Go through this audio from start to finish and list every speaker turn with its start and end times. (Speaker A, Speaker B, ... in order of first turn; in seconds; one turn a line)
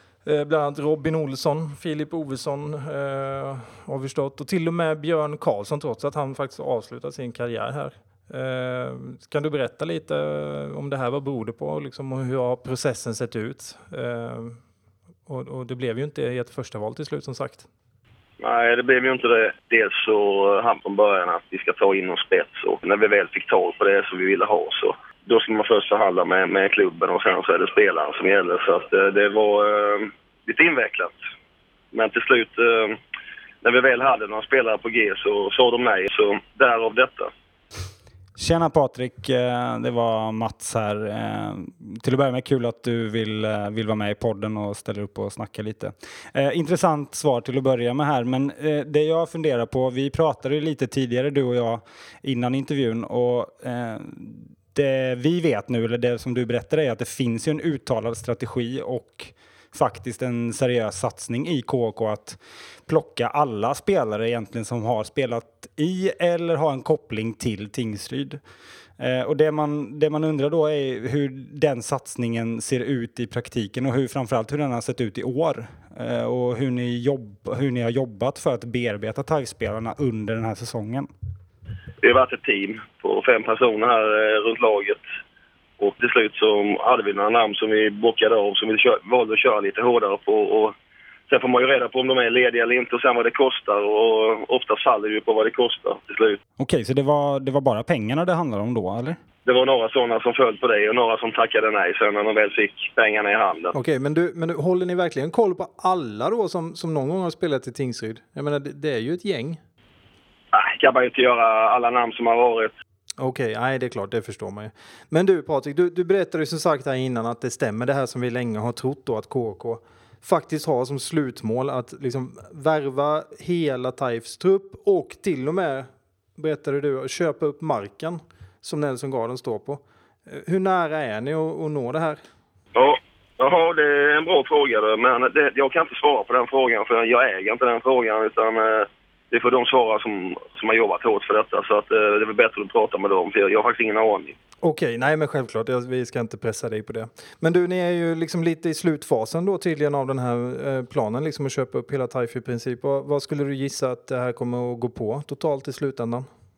Speaker A: 0.2-14.6
Speaker A: 15.3-17.7
Speaker B: 18.4-31.2
Speaker B: 31.9-33.0
Speaker B: 33.6-37.3
Speaker C: 38.4-68.4
Speaker C: 69.0-81.1
Speaker B: 82.0-85.0
Speaker B: 85.8-90.7
Speaker B: 91.3-96.4
Speaker C: 96.6-99.2
Speaker B: 99.5-103.7
Speaker A: 103.7-109.6
Speaker B: 110.5-112.7
Speaker A: 113.2-132.2
Speaker B: 132.7-144.3
Speaker A: 144.6-156.3